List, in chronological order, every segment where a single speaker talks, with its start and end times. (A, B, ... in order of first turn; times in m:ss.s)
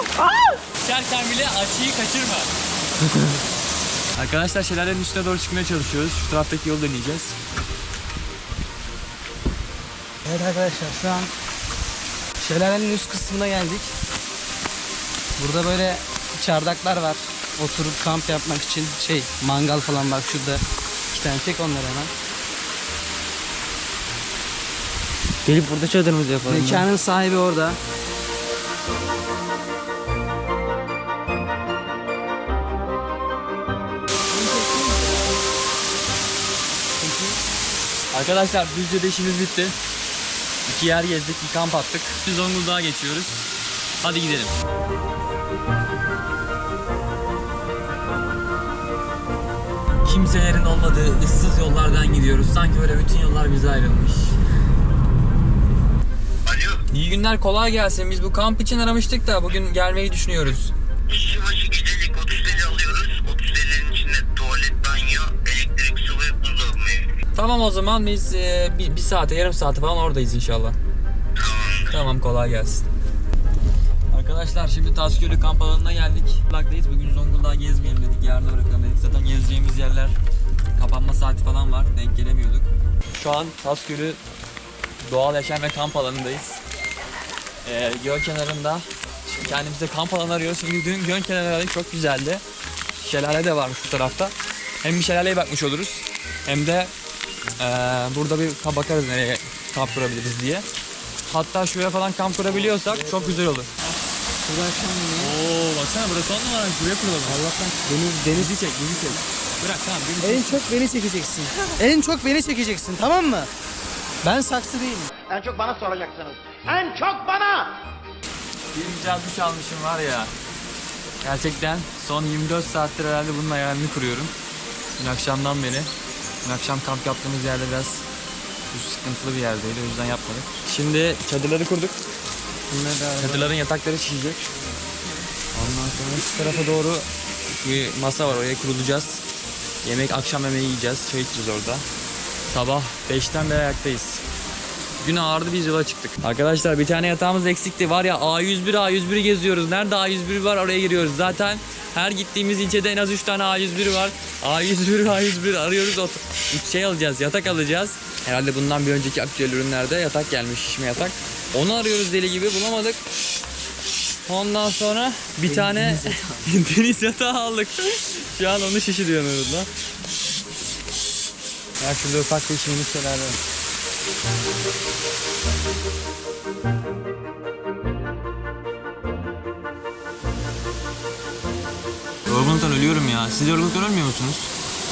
0:00.8-0:02.5 A
0:04.1-0:07.4 A
0:10.2-0:11.3 B
0:12.4-0:13.9 B
0:15.4-0:22.1 B
0:25.4-0:26.9 C
0:26.4-0:27.8 B
0:34.4-0:34.9 B
0:37.0-0:37.3 B
0:38.1-0:39.8 A
0:40.7-0:43.5 A
0:44.0-0:44.5 A
0:50.0-0:54.4 A
0:56.4-0:56.8 D
0:56.9-1:00.7 A
1:01.1-1:07.0 D
1:07.3-1:10.8 A
1:11.4-1:11.8 D
1:11.9-1:12.8 A
1:14.1-1:20.1 A
1:20.8-1:24.2 A
1:25.0-1:26.6 A
1:27.6-1:32.4 A
1:33.0-1:36.9 A
1:37.6-1:40.6 A
1:41.3-1:43.7 A
1:42.5-1:43.4 B
1:44.4-1:45.3 B
1:45.2-1:47.4 A
1:47.2-1:48.5 B
1:48.3-1:50.6 A
1:50.2-1:53.5 B
1:54.2-1:55.1 B
1:55.3-1:57.7 E
1:58.7-2:00.3 A
2:01.2-2:04.3 A
2:05.0-2:05.9 A
2:06.4-2:08.0 A
2:08.7-2:12.0 A
2:12.7-2:13.5 C
2:13.2-2:14.5 A
2:15.5-2:19.2 A
2:19.8-2:21.8 A
2:22.5-2:24.2 A
2:25.0-2:43.0 A
2:44.2-2:49.7 A
2:45.4-2:46.5 B
2:51.8-2:53.4 A
3:02.3-3:04.5 A